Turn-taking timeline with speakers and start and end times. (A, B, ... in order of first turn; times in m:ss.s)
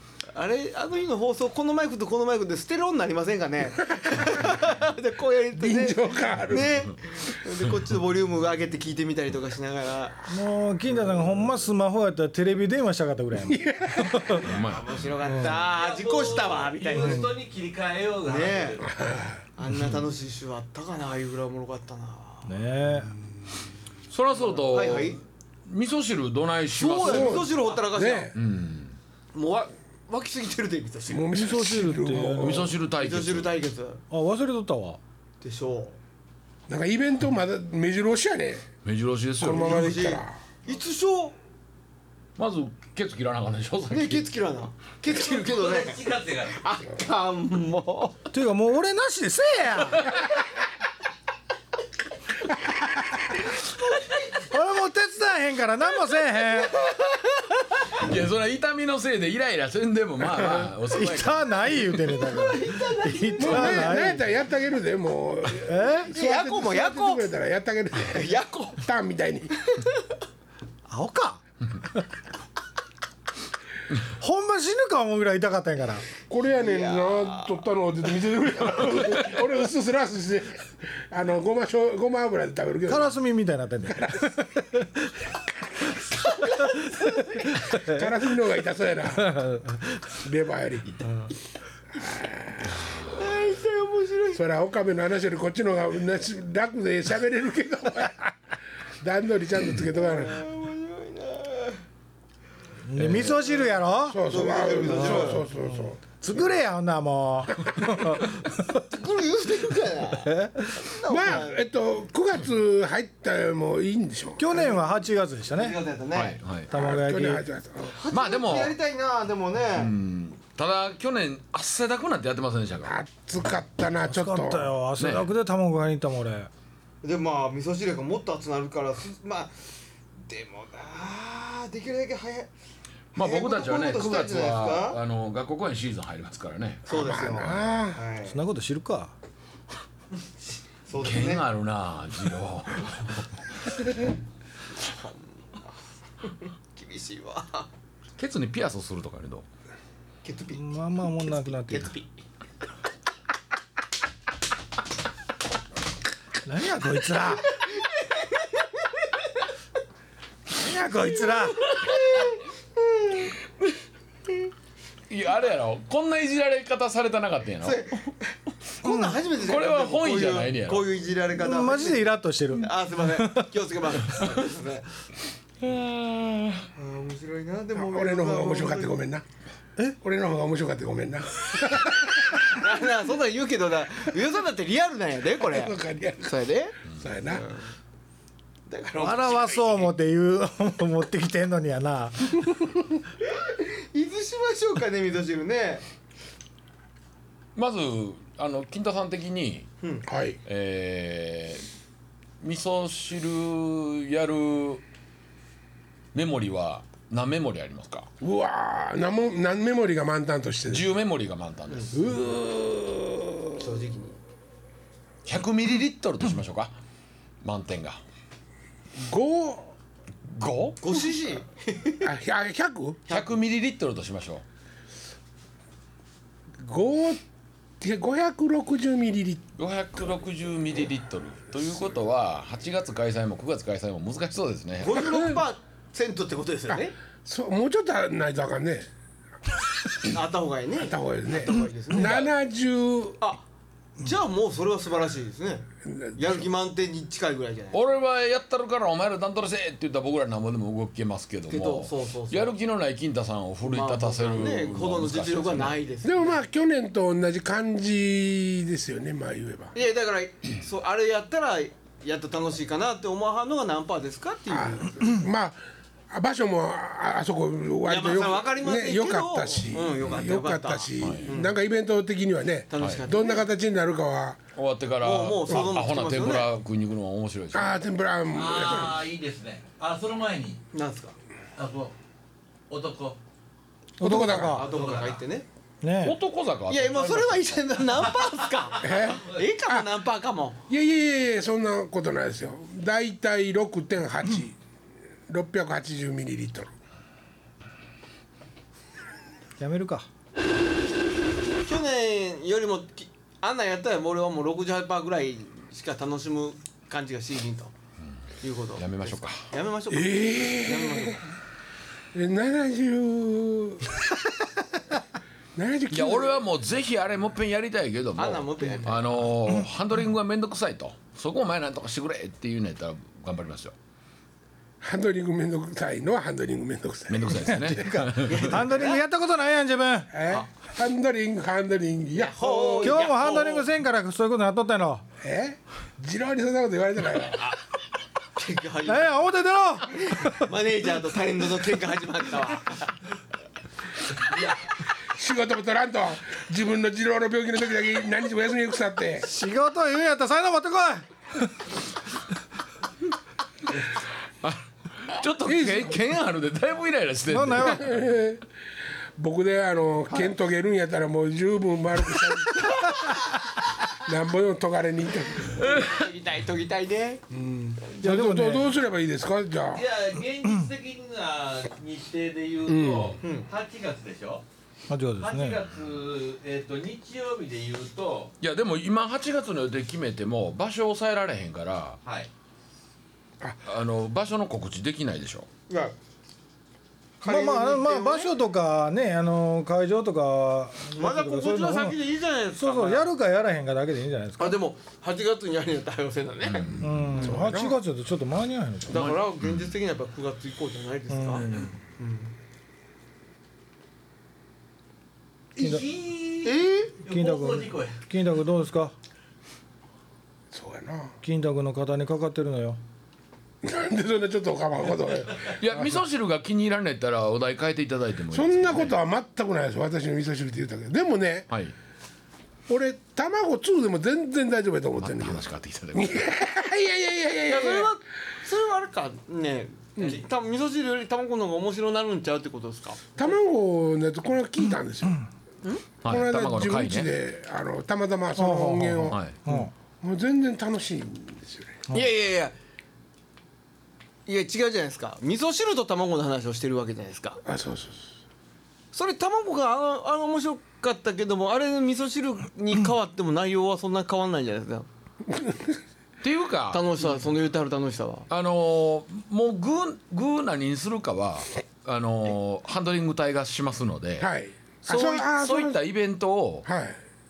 0:00.3-0:10.2 A
0:05.5-0:06.9 B
0:10.3-0:14.4 C
0:13.5-0:14.4 B
0:14.3-0:15.1 D
0:14.4-0:17.3 A
0:15.2-0:15.6 C
0:15.5-0:19.0 E
0:16.9-0:17.3 C
0:18.2-0:18.9 A
0:18.9-0:19.4 B
0:19.6-0:22.5 A
0:22.4-0:23.2 C
0:24.1-0:27.5 D
0:24.3-0:25.2 A
0:26.7-0:28.3 A
0:27.0-0:28.3 B
0:28.3-0:29.0 D
0:29.3-0:31.3 A
0:31.1-0:32.8 B
0:31.3-0:32.7 C
0:32.4-0:33.5 D
0:33.0-0:34.0 A
0:34.1-0:35.0 C
0:35.4-0:36.0 A
0:36.7-0:38.7 B
0:38.8-0:40.2 D
0:39.4-0:40.4 B
0:39.5-0:41.3 A
0:42.4-0:44.2 D
0:43.9-0:48.2 A
0:45.1-0:46.6 E
0:48.3-0:50.1 C
0:54.5-0:56.8 C
0:56.8-0:57.2 A
0:57.9-1:01.8 D
1:00.9-1:04.2 C
1:02.0-1:04.0 A
1:03.4-1:09.6 B
1:05.6-1:06.1 C
1:06.1-1:07.2 A
1:08.1-1:08.8 A
1:10.9-1:11.4 C
1:14.2-1:16.0 C
1:16.3-1:23.1 B
1:16.5-1:17.6 A
1:22.9-1:24.8 C
1:23.9-1:24.3 B
1:26.1-1:27.6 A
1:27.7-1:29.3 B
1:29.2-1:29.7 C
1:30.2-1:31.0 B
1:31.9-1:32.9 B
1:33.1-1:34.4 A
1:34.3-1:38.3 B
1:39.0-1:40.4 B
1:39.9-1:41.8 A
1:42.8-1:44.2 C
1:43.0-1:43.3 D
1:43.4-1:45.4 A
1:44.0-1:46.0 B
1:44.9-1:48.4 C
1:48.7-1:51.6 A
1:50.2-1:50.8 C
1:51.1-1:54.8 B
1:54.4-1:55.8 C
1:55.5-1:56.4 A
1:56.1-1:56.7 D
1:56.7-1:57.4 C
1:56.7-1:58.0 B
1:57.9-1:59.9 A
1:58.1-1:58.7 D
1:59.7-2:03.0 D
2:02.8-2:04.7 B
2:04.1-2:06.5 C
2:05.0-2:05.3 D
2:07.0-2:09.7 A
2:10.3-2:12.5 A
2:13.1-2:17.7 D
2:13.1-2:15.0 A
2:16.8-2:18.4 A
2:16.9-2:18.0 B
2:18.3-2:19.1 C
2:20.9-2:21.4 A
2:20.9-2:23.3 D
2:24.8-2:25.2 A
2:26.2-2:27.7 A
2:28.2-2:29.4 D
2:30.2-2:32.1 A
2:30.5-2:31.9 C
2:36.4-2:37.5 C
2:37.6-2:38.6 A
2:40.5-2:41.6 C
2:41.5-2:42.4 A
2:45.1-2:48.0 D
2:47.6-2:54.9 A
2:48.8-2:49.2 C
2:49.3-2:50.9 D
2:51.3-2:53.5 C
2:55.6-2:56.7 D
2:56.8-2:58.9 A
2:57.7-2:59.2 B
3:00.0-3:02.6 B
3:02.4-3:07.7 A
3:05.4-3:07.5 B
3:08.7-3:09.9 A
3:09.0-3:12.4 C
3:13.2-3:15.8 A
3:17.6-3:19.7 D
3:20.0-3:20.4 B
3:20.4-3:21.6 D
3:22.4-3:24.8 D
3:26.1-3:28.1 D
3:28.2-3:30.8 B
3:30.7-3:32.0 D
3:31.9-3:33.6 B
3:33.6-3:34.2 A
3:35.2-3:36.7 D
3:37.4-3:38.0 D
3:39.0-3:39.7 B
3:40.3-3:41.1 D
3:40.8-3:42.1 A
3:42.0-3:43.0 B
3:43.1-3:43.3 A
3:43.1-3:44.4 D
3:46.6-3:47.2 B
3:47.8-3:49.4 B
3:49.6-3:55.3 D
3:54.8-3:56.9 A
3:56.7-3:58.9 B
4:00.1-4:02.3 A
4:00.8-4:03.2 B
4:04.0-4:05.6 A
4:05.8-4:06.5 B
4:06.2-4:07.8 A
4:07.7-4:15.8 D
4:11.5-4:12.5 A
4:13.6-4:16.4 A
4:16.0-4:19.8 B
4:19.7-4:25.1 A
4:24.5-4:25.6 B
4:26.1-4:34.4 B
4:27.8-4:31.5 A
4:31.0-4:31.3 D
4:32.7-4:33.4 A
4:32.8-4:33.0 D
4:34.5-4:37.8 D
4:35.0-4:36.5 A
4:37.5-4:39.0 B
4:38.3-4:40.6 E
4:40.7-4:41.2 A
4:41.6-4:41.9 E
4:42.7-4:43.2 E
4:44.0-4:44.6 C
4:44.0-4:44.7 B
4:44.5-4:45.4 A
4:44.6-4:45.2 E
4:45.8-4:46.2 C
4:46.0-4:47.5 D
4:46.7-4:50.6 A
4:48.8-4:49.9 B
4:50.7-4:54.6 B
4:55.3-4:56.7 B
4:59.6-5:00.0 C
5:01.6-5:07.7 A
5:08.4-5:11.2 A
5:08.8-5:09.4 D
5:09.9-5:11.2 B
5:12.1-5:14.0 B
5:15.5-5:16.4 B
5:15.9-5:23.7 D
5:18.2-5:19.2 A
5:24.8-5:28.0 B
5:27.1-5:28.5 D
5:27.5-5:30.1 C
5:28.2-5:29.0 A
5:30.1-5:33.0 B
5:32.2-5:33.7 A
5:32.8-5:35.0 C
5:35.2-5:37.5 B
5:38.4-5:39.2 A
5:38.8-5:40.4 C
5:39.9-5:42.9 A
5:45.0-5:49.3 B
5:49.2-5:51.0 C
5:54.4-5:58.0 D
5:55.4-5:56.0 B
5:57.3-5:57.9 C
5:57.6-5:58.4 B
5:59.2-6:02.7 B
6:04.0-6:05.7 B
6:05.6-6:07.2 A
6:05.6-6:05.9 D
6:07.3-6:09.8 B
6:08.0-6:08.7 C
6:09.7-6:14.4 E
6:12.6-6:13.2 B
6:13.2-6:13.5 A
6:14.9-6:15.6 C
6:15.2-6:18.3 E
6:18.4-6:22.0 D
6:23.6-6:25.5 D
6:25.7-6:25.9 A
6:27.2-6:28.3 A
6:27.2-6:32.0 C
6:31.0-6:33.1 A
6:32.6-6:34.6 C
6:34.4-6:36.8 A
6:36.4-6:36.8 D
6:36.8-6:39.0 C
6:37.1-6:37.8 B
6:38.9-6:42.3 A
6:38.9-6:39.7 D
6:41.1-6:41.7 C
6:45.6-6:48.0 E
6:45.6-6:45.8 C
6:46.4-6:46.9 A
6:47.0-6:48.9 C
6:50.5-6:51.1 B
6:51.2-6:52.8 C
6:53.6-6:56.0 B
6:55.6-6:58.9 D
6:58.3-7:01.5 B
7:02.7-7:07.9 B
7:05.0-7:06.2 D
7:07.5-7:13.1 A
7:13.2-7:15.2 B
7:16.0-7:17.1 D
7:16.0-7:21.8 B
7:18.4-7:19.7 C
7:19.1-7:19.4 D
7:21.9-7:22.5 A
7:24.2-7:27.4 A
7:27.4-7:28.1 B
7:28.9-7:34.9 A
7:35.3-7:35.8 B
7:36.2-7:37.2 D
7:36.7-7:38.3 A
7:38.3-7:44.3 D
7:44.2-7:45.8 B
7:44.8-7:46.6 D
7:46.6-7:47.0 B